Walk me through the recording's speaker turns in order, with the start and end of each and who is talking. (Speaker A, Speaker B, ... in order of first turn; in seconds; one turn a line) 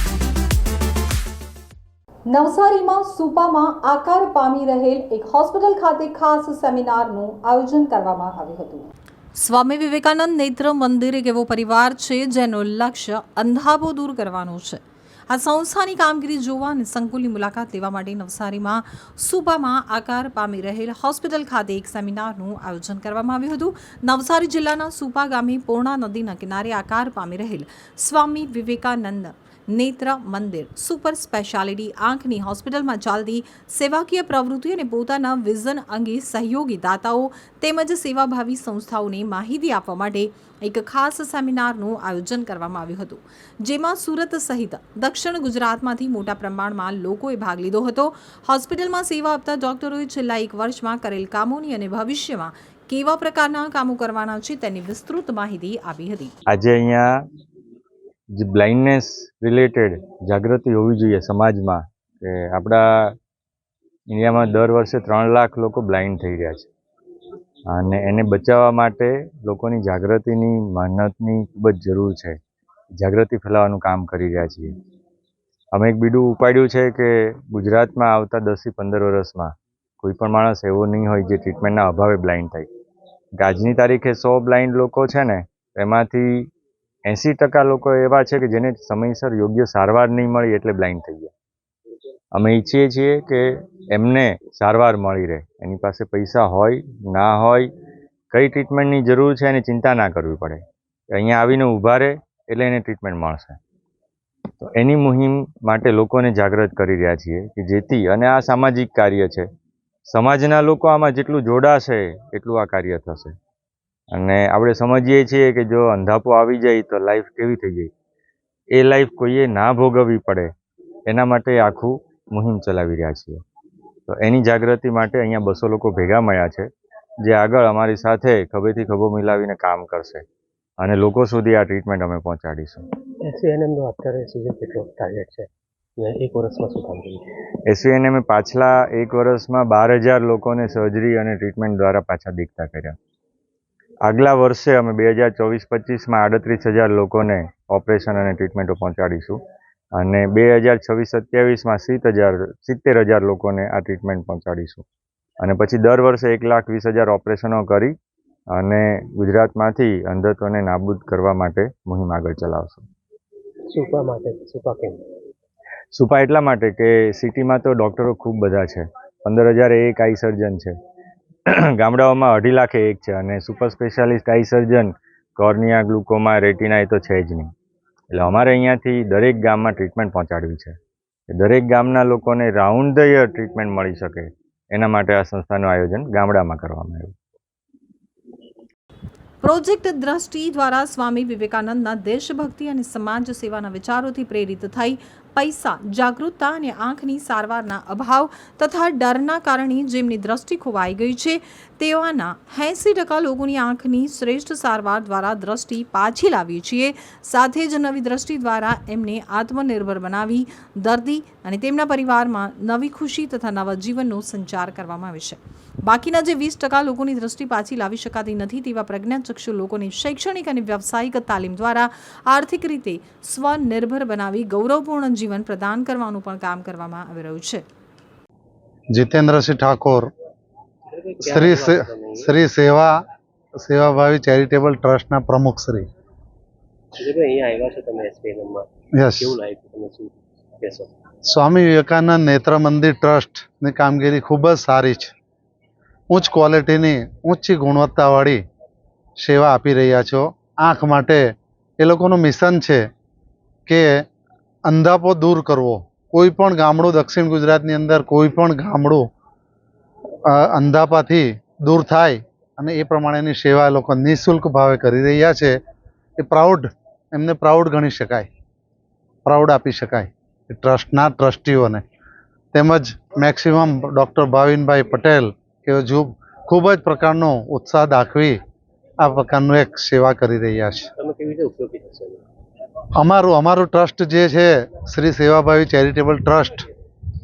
Speaker A: 2.3-56.3
Speaker B: 56.5-57.1
Speaker B: 58.4-63.1
Speaker B: 64.1-66.7
Speaker B: 67.7-72.4
Speaker B: 73.0-74.7
Speaker B: 75.8-82.7
Speaker B: 83.4-86.5
Speaker B: 87.1-91.3
Speaker B: 92.3-97.7
Speaker B: 98.3-100.6
Speaker B: 101.1-103.6
Speaker B: 104.6-109.5
Speaker B: 110.1-113.3
Speaker B: 114.1-117.9
Speaker B: 118.7-120.5
Speaker B: 121.1-123.4
Speaker B: 124.1-126.7
Speaker B: 127.2-130.2
Speaker B: 130.8-132.9
Speaker C: 133.2-137.2
Speaker B: 137.7-143.0
Speaker B: 144.1-149.4
Speaker B: 150.0-154.8
Speaker B: 155.4-157.9
Speaker B: 158.6-162.9
Speaker C: 163.7-165.1
Speaker B: 165.9-170.7
Speaker B: 171.5-177.5
Speaker B: 178.1-180.8
Speaker B: 181.3-187.1
Speaker A: 189.4-227.6
Speaker D: 228.9-230.1
Speaker C: 230.9-232.3
Speaker D: 231.2-232.9
Speaker D: 233.6-235.8
Speaker C: 237.0-238.7
Speaker D: 239.0-239.3
Speaker C: 239.2-240.9
Speaker D: 241.3-245.1
Speaker D: 246.1-248.4
Speaker D: 249.2-251.2
Speaker D: 251.8-252.8
Speaker D: 253.7-254.0
Speaker D: 254.7-259.0
Speaker D: 260.3-265.6
Speaker D: 266.2-268.3
Speaker D: 269.3-271.8
Speaker D: 272.5-278.4
Speaker D: 279.0-280.9
Speaker C: 281.0-282.2
Speaker D: 283.0-286.7